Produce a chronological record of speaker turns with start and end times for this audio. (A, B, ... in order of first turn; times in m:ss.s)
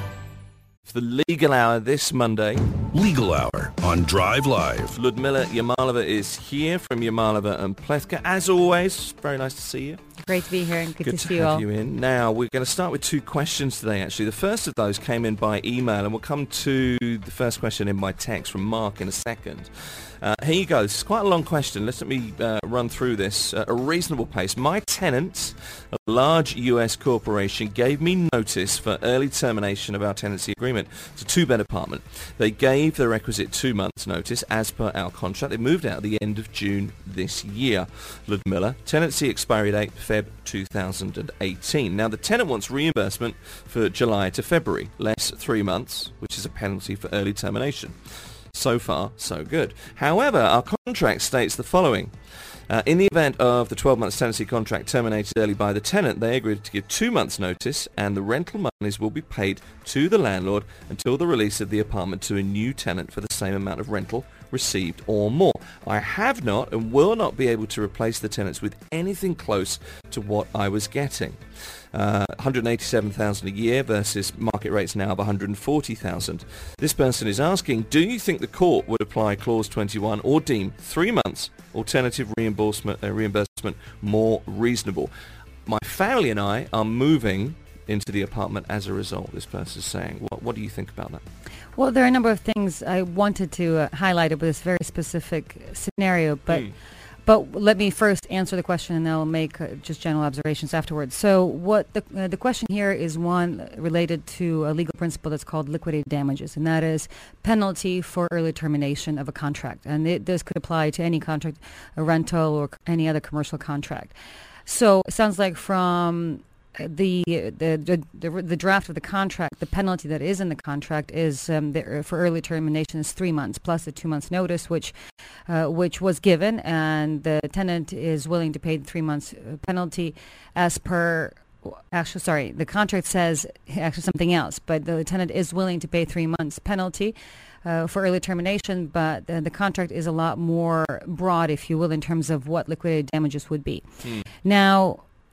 0:00.9-0:02.6 A
0:02.9-0:05.0 B
0:04.9-0:10.0 A
0:10.2-0:11.6 C
0:11.0-0:52.1 A
0:52.7-1:25.1 A
1:25.7-1:31.2 A
1:31.8-1:36.7 C
1:37.2-1:54.1 C
1:54.6-2:04.9 C
2:05.5-2:23.8 C
2:24.0-2:24.3 A
2:24.4-2:25.0 C